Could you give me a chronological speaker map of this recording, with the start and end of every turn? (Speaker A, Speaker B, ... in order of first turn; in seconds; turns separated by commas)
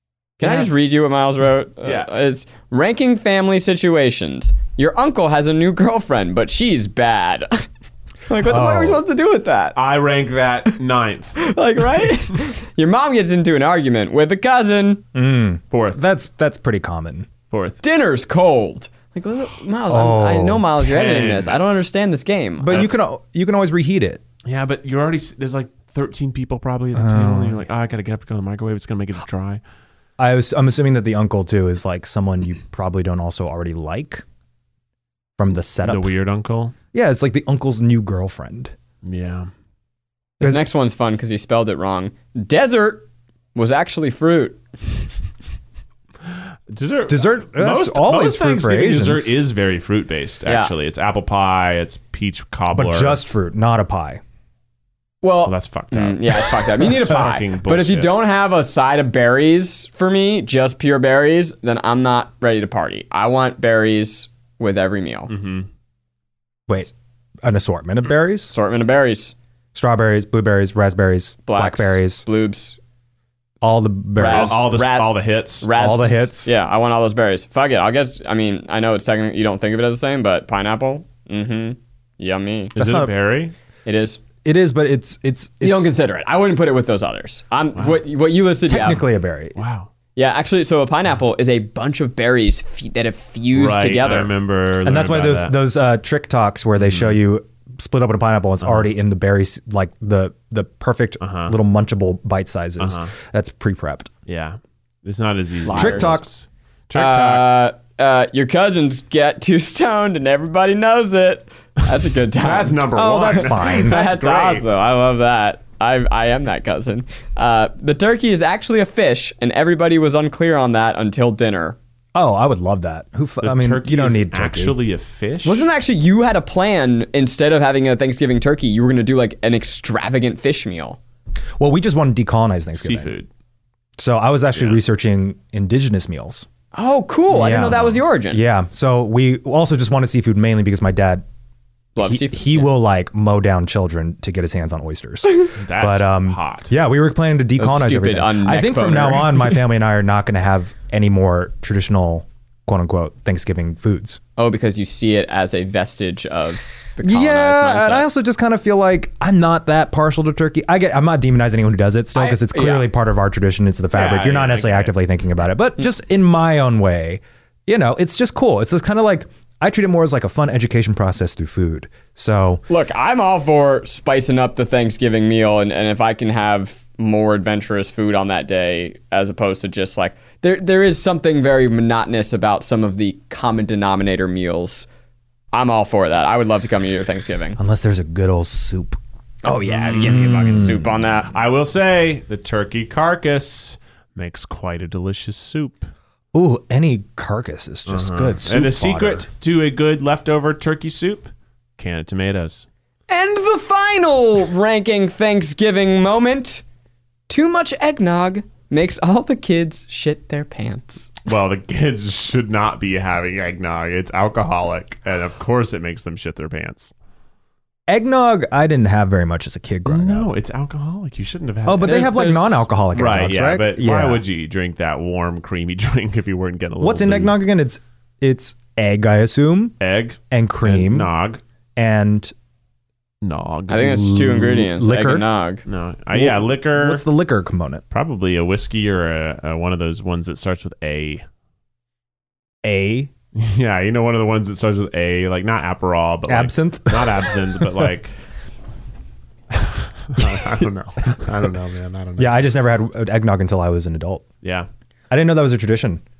Speaker A: 0.4-7.7, Speaker B: 0.4-0.7, Speaker C: 1.8-2.1, Speaker A: 8.3-9.8, Speaker B: 8.4-9.0, Speaker C: 9.8-11.4, Speaker A: 11.4-15.0, Speaker B: 15.1-17.3, Speaker C: 15.7-16.0, Speaker C: 17.5-17.8, Speaker A: 17.8-22.9, Speaker B: 19.9-20.6, Speaker C: 20.8-21.6, Speaker B: 22.6-24.2, Speaker C: 24.4-29.6, Speaker B: 26.9-27.6, Speaker B: 30.2-34.2, Speaker B: 35.4-36.1, Speaker C: 35.8-36.8, Speaker B: 36.9-38.7, Speaker C: 39.0-39.5, Speaker A: 40.4-43.0, Speaker A: 43.5-44.6, Speaker C: 46.7-53.2, Speaker B: 47.1-49.3, Speaker A: 50.5-50.7, Speaker B: 52.7-54.2, Speaker A: 55.2-65.3, Speaker C: 55.4-58.1, Speaker C: 65.3-65.7, Speaker B: 67.4-68.5, Speaker A: 68.5-69.3, Speaker B: 69.7-72.2, Speaker A: 71.5-72.8, Speaker B: 73.6-74.6, Speaker A: 74.2-82.7, Speaker C: 74.3-75.7, Speaker B: 75.7-76.5, Speaker B: 82.8-83.1, Speaker C: 82.8-83.5, Speaker A: 83.8-84.2, Speaker B: 84.4-85.9, Speaker A: 85.6-89.0, Speaker B: 88.7-89.6, Speaker C: 89.5-89.9, Speaker A: 90.2-94.3, Speaker C: 93.5-95.6, Speaker B: 94.8-104.1, Speaker C: 96.8-97.2, Speaker C: 98.6-98.9, Speaker C: 101.2-101.5, Speaker C: 102.8-103.1, Speaker C: 104.3-107.6, Speaker A: 105.7-106.2, Speaker B: 105.7-106.2, Speaker A: 106.9-121.8, Speaker C: 112.4-114.7, Speaker B: 112.9-114.0, Speaker B: 122.1-124.8, Speaker C: 123.4-125.7, Speaker A: 125.4-131.0, Speaker B: 131.6-133.1, Speaker C: 132.7-133.3, Speaker B: 134.0-136.5, Speaker A: 136.7-138.4, Speaker B: 137.3-141.2, Speaker A: 141.9-142.7, Speaker B: 141.9-154.2, Speaker C: 145.5-146.7, Speaker A: 147.6-149.6, Speaker A: 154.4-158.1, Speaker B: 157.0-172.6, Speaker A: 162.1-162.9, Speaker C: 163.9-164.9, Speaker A: 172.7-184.9, Speaker A: 185.5-187.6, Speaker B: 187.6-189.0, Speaker A: 189.4-191.3, Speaker C: 189.7-190.7, Speaker B: 190.0-190.9, Speaker C: 191.3-195.9, Speaker B: 196.3-199.2, Speaker C: 197.9-202.7, Speaker A: 203.1-206.6, Speaker A: 207.3-211.1, Speaker C: 211.2-216.9, Speaker B: 217.9-220.3, Speaker C: 219.8-222.3, Speaker B: 221.7-224.2, Speaker A: 221.8-222.7, Speaker C: 222.9-227.4, Speaker B: 226.8-229.8, Speaker C: 229.8-231.4, Speaker B: 230.3-231.1, Speaker B: 231.8-232.3, Speaker C: 233.2-234.2, Speaker A: 233.7-235.6, Speaker B: 233.9-235.2, Speaker C: 235.7-237.1, Speaker B: 236.1-237.8, Speaker C: 237.9-241.2, Speaker B: 242.6-243.1, Speaker C: 243.3-248.1, Speaker B: 246.3-247.9, Speaker C: 249.5-252.4, Speaker B: 250.2-250.6, Speaker B: 252.2-254.2, Speaker C: 254.4-254.7, Speaker B: 255.1-256.0